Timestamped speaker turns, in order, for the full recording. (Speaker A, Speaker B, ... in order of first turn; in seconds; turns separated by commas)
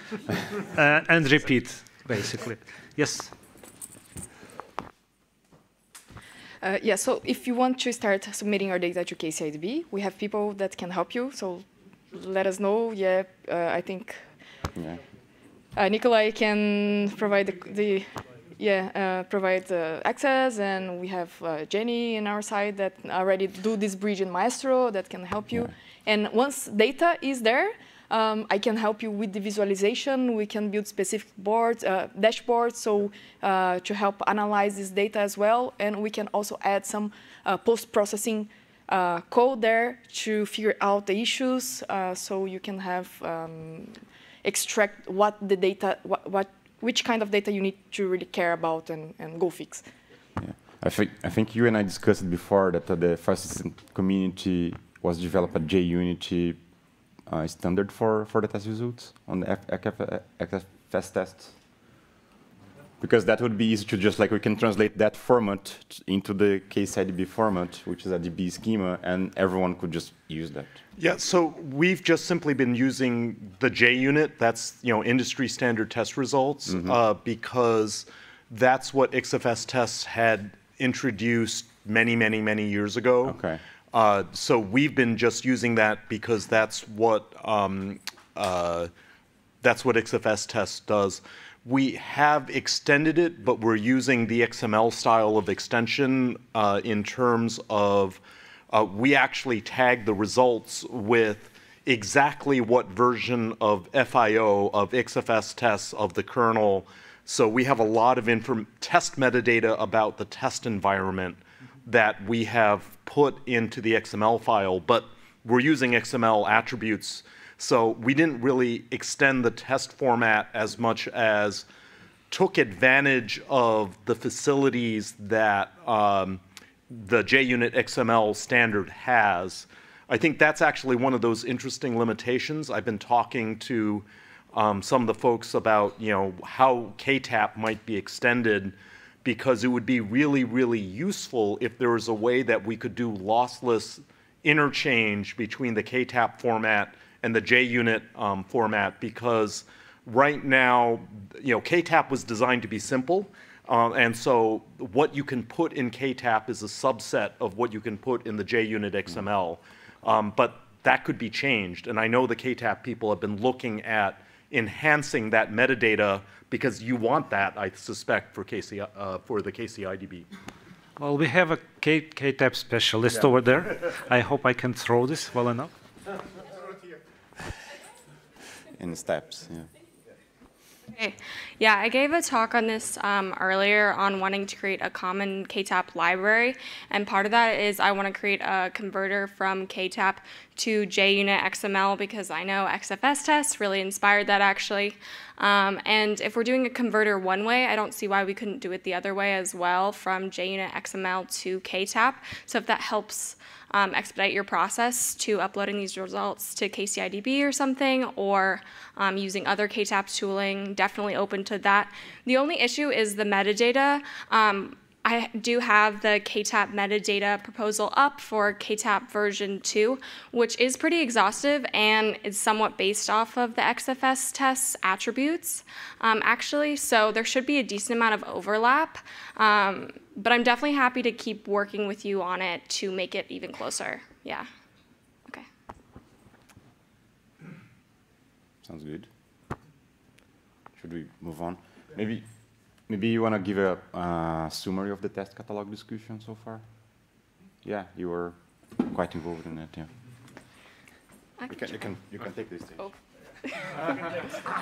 Speaker A: 0.3-3.3, Speaker B: 6.6-14.3, Speaker C: 14.7-15.0, Speaker B: 15.7-49.9, Speaker C: 50.4-56.6, Speaker C: 57.2-61.5, Speaker C: 63.0-70.8, Speaker D: 71.0-83.4, Speaker C: 76.7-77.0, Speaker C: 83.2-83.6, Speaker D: 83.9-88.9, Speaker D: 89.6-121.7, Speaker D: 122.3-170.3, Speaker A: 171.0-175.7, Speaker C: 178.7-179.7, Speaker E: 180.9-234.5, Speaker C: 238.6-239.1, Speaker C: 240.8-242.3, Speaker C: 242.8-246.7, Speaker C: 247.6-249.9, Speaker E: 251.4-251.8, Speaker C: 251.5-252.8, Speaker E: 253.4-254.2